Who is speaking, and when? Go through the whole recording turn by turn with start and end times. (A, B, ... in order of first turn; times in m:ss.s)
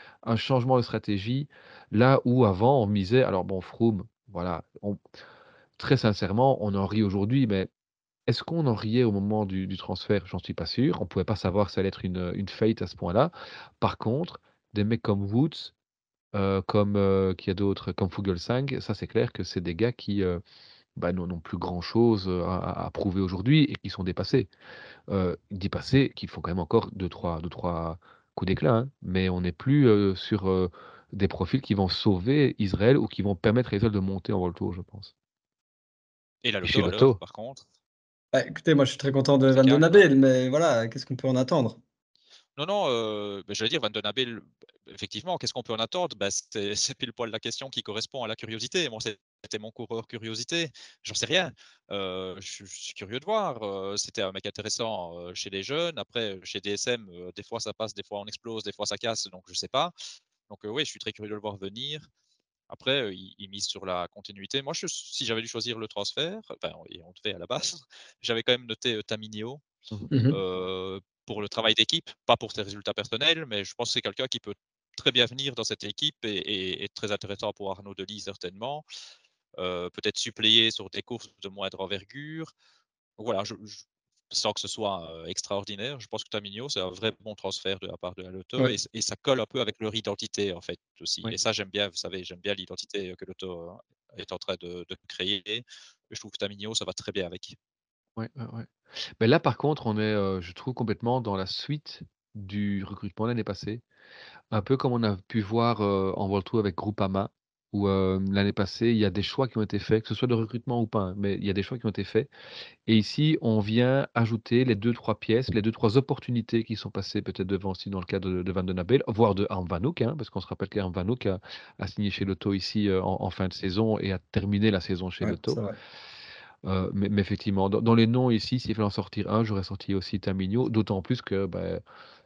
0:00.2-0:05.0 A
0:05.8-0:07.7 A
0:08.3-0:15.7 A
0:16.3-0:20.4 A
0:21.0-0:24.5 A
0:25.1-0:35.1 A
0:36.4-0:37.6 B
0:36.6-0:37.2 A
0:38.3-0:41.8 C
0:39.4-0:40.1 B
0:42.6-0:59.9 B
1:00.5-1:02.1 B
1:02.7-1:09.6 B
1:10.1-1:10.4 C
1:10.3-1:18.8 B
1:19.6-1:22.5 B
1:23.2-1:37.6 B
1:38.2-1:38.7 A
1:39.2-1:43.8 A
1:44.5-1:52.3 A
1:52.8-2:05.6 A
2:05.2-2:05.7 C
2:06.6-2:11.8 A